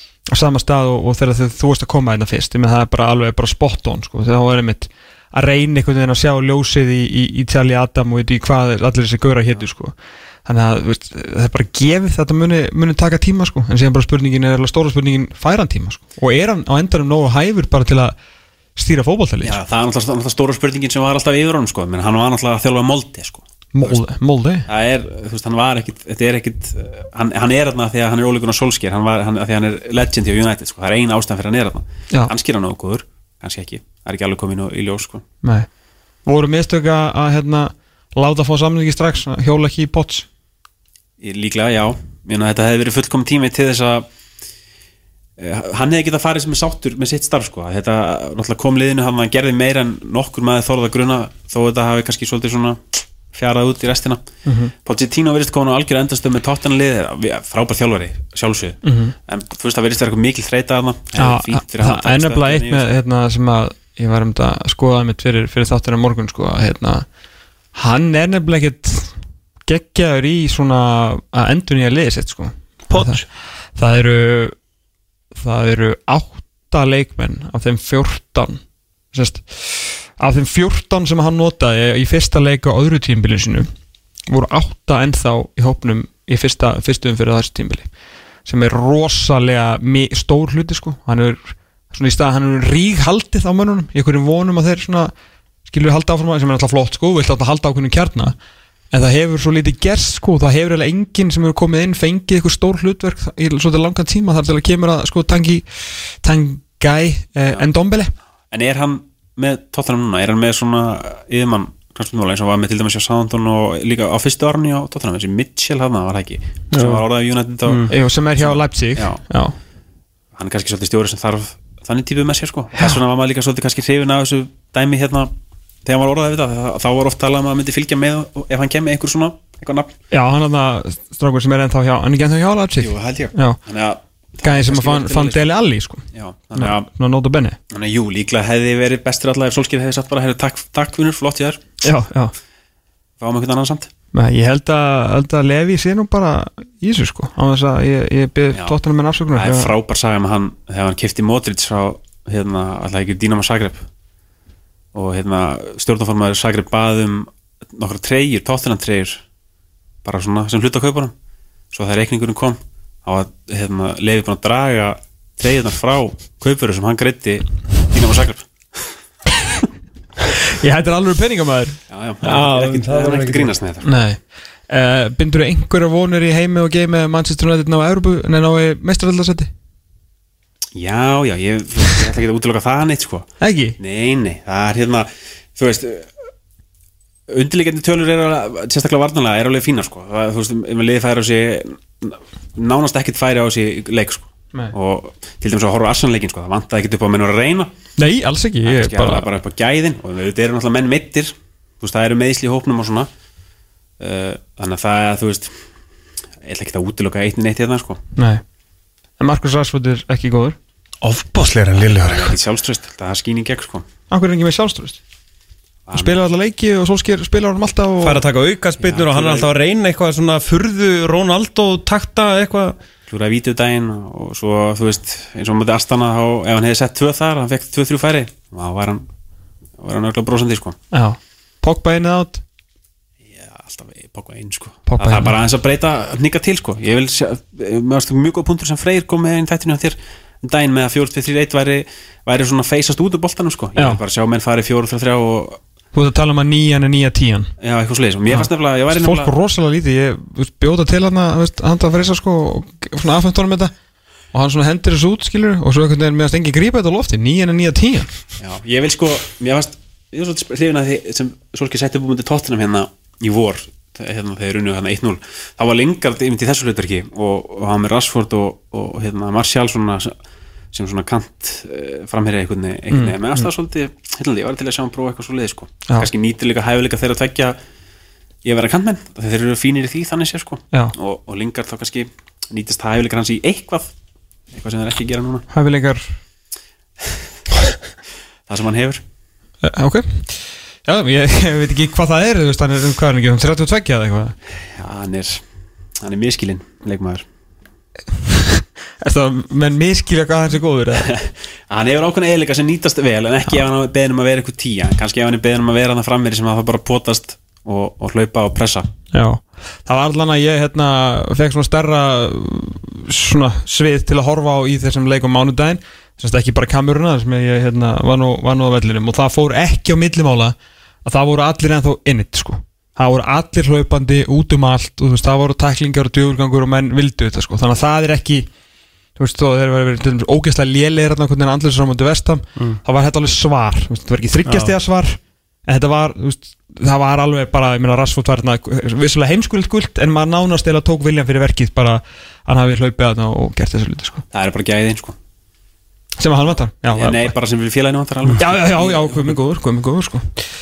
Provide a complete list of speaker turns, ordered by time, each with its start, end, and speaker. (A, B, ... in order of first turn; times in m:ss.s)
0:00.3-0:18.1 A
0:18.8-0:19.6 A
0:19.4-0:24.0 B
0:23.7-0:24.7 A
0:24.7-0:35.2 B
0:35.4-0:35.7 A
0:36.2-0:40.3 A
0:41.2-0:44.1 B
0:45.4-0:54.2 B
0:54.4-0:54.7 A
0:54.8-1:03.0 B
0:58.8-0:59.1 A
1:01.2-1:07.0 A
1:07.7-1:09.2 A
1:09.7-1:13.2 A
1:12.9-1:13.2 C
1:13.8-1:14.6 A
1:15.4-1:18.6 A
1:19.1-1:23.7 A
1:24.3-1:27.9 A
1:28.4-1:35.1 A
1:35.7-1:38.4 A
1:38.9-1:45.6 A
1:46.2-1:48.1 A
1:48.5-1:59.2 B
1:56.7-1:57.0 C
1:57.9-1:59.6 A
2:00.3-2:05.3 B
2:05.8-2:09.9 B
2:10.1-2:13.6 A
2:12.8-2:15.5 B
2:14.4-2:16.0 A
2:16.1-2:16.9 B
2:16.6-2:17.6 A
2:17.7-2:21.6 B
2:21.8-2:22.3 A
2:23.2-2:23.9 B
2:24.1-2:29.7 A
2:29.3-2:33.8 B
2:34.9-2:39.2 B
2:40.0-2:41.1 B
2:41.7-2:48.9 B
2:50.5-2:51.8 A
2:51.9-2:53.9 B
2:52.2-2:53.5 C
2:53.8-2:59.5 A
3:00.7-3:06.2 B
3:03.4-3:03.8 A
3:07.3-3:17.7 B
3:18.0-3:19.2 A
3:18.6-3:23.1 B
3:24.0-3:25.6 B
3:26.4-3:28.0 B
3:28.2-3:28.4 A
3:29.2-3:30.6 A
3:31.0-3:32.4 C
3:32.0-3:33.8 B
3:34.1-3:35.0 A
3:35.8-3:36.2 B
3:35.9-3:38.2 A
3:38.0-3:42.8 C
3:38.8-3:39.5 B
3:43.1-3:49.0 B
3:49.8-3:50.8 B
3:50.9-3:52.4 A
3:53.3-4:05.6 B
3:54.8-3:55.3 A
4:05.9-4:07.5 A
4:07.6-4:09.3 B
4:08.3-4:13.7 A
4:14.3-4:18.1 A
4:18.4-4:30.1 B
4:30.7-4:37.6 B
4:32.9-4:33.4 A
4:38.4-4:43.9 B
4:44.5-4:45.5 B
4:45.5-4:46.1 A
4:48.5-4:49.0 B
4:49.6-4:54.4 A
4:54.7-4:55.4 B
4:56.0-4:57.2 B
4:58.2-5:01.1 A
5:01.0-5:08.9 B
5:09.1-5:28.5 A
5:29.2-5:44.2 A
5:34.4-5:34.7 C
5:44.3-5:45.2 B
5:46.2-5:47.3 A
5:46.9-5:49.3 B
5:48.3-5:50.3 A